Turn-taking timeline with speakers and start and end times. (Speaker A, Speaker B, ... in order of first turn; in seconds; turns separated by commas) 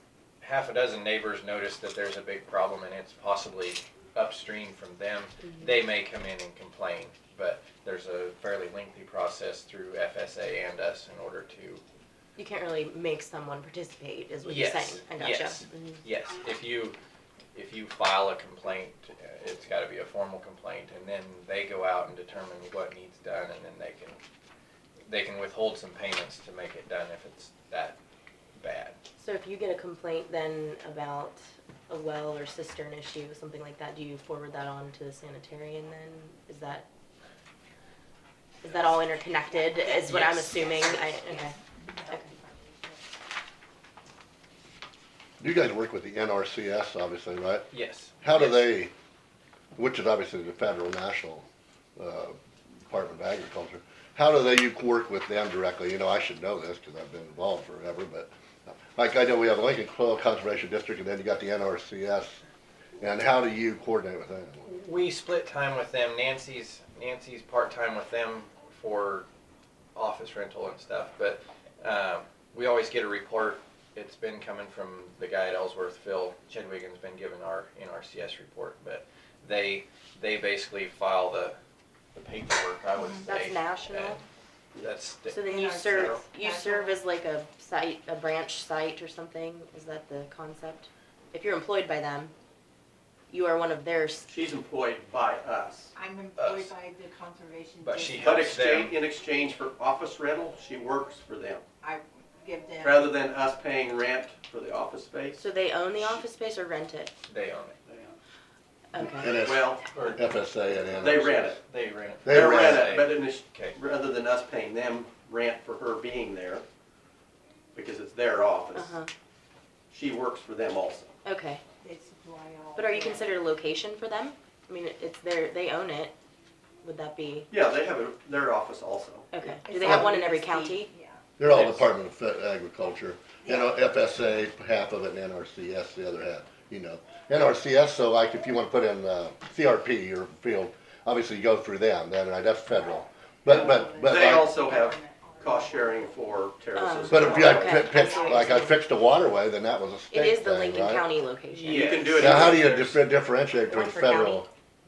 Speaker A: 0.4-11.8, Speaker B: 5.5-5.8, Speaker B: 12.3-16.0, Speaker A: 14.4-17.0, Speaker A: 17.5-24.2, Speaker A: 25.1-28.0, Speaker A: 28.6-29.0, Speaker B: 29.2-36.9, Speaker B: 38.6-41.5, Speaker C: 39.5-40.1, Speaker A: 40.0-40.8, Speaker C: 41.1-43.0, Speaker D: 45.4-47.7, Speaker A: 47.7-48.7, Speaker D: 48.2-48.9, Speaker D: 49.8-51.4, Speaker D: 52.0-52.4, Speaker D: 52.9-62.4, Speaker D: 63.0-64.6, Speaker A: 64.6-69.2, Speaker A: 69.9-81.6, Speaker A: 82.1-84.2, Speaker C: 83.0-83.2, Speaker B: 83.2-84.2, Speaker A: 84.8-85.4, Speaker B: 85.3-92.3, Speaker C: 85.4-87.0, Speaker B: 93.3-94.3, Speaker E: 94.3-95.9, Speaker C: 95.9-98.6, Speaker A: 96.4-96.7, Speaker A: 97.8-99.0, Speaker E: 98.1-101.6, Speaker C: 101.8-103.1, Speaker E: 102.8-105.4, Speaker B: 105.3-107.1, Speaker A: 107.3-107.8, Speaker E: 107.9-108.2, Speaker B: 108.9-109.3, Speaker D: 109.0-111.6, Speaker E: 109.4-109.9, Speaker A: 109.9-110.3, Speaker E: 110.9-111.6, Speaker A: 111.0-113.8, Speaker D: 112.2-112.9, Speaker E: 112.2-116.6, Speaker E: 117.7-119.0, Speaker B: 118.7-119.1, Speaker E: 119.9-121.1, Speaker B: 121.2-121.6, Speaker C: 121.8-123.3, Speaker B: 122.8-126.1, Speaker B: 126.8-127.5, Speaker E: 127.5-129.3, Speaker B: 129.3-130.9, Speaker C: 129.5-131.3, Speaker D: 131.4-144.5, Speaker A: 131.4-131.9, Speaker C: 133.4-133.9, Speaker C: 143.4-146.5, Speaker E: 143.5-147.9, Speaker B: 146.7-148.8, Speaker D: 147.1-151.1, Speaker C: 147.1-148.7, Speaker B: 150.1-152.2, Speaker A: 151.5-152.9, Speaker E: 151.7-153.0, Speaker D: 152.2-154.5, Speaker B: 153.7-154.5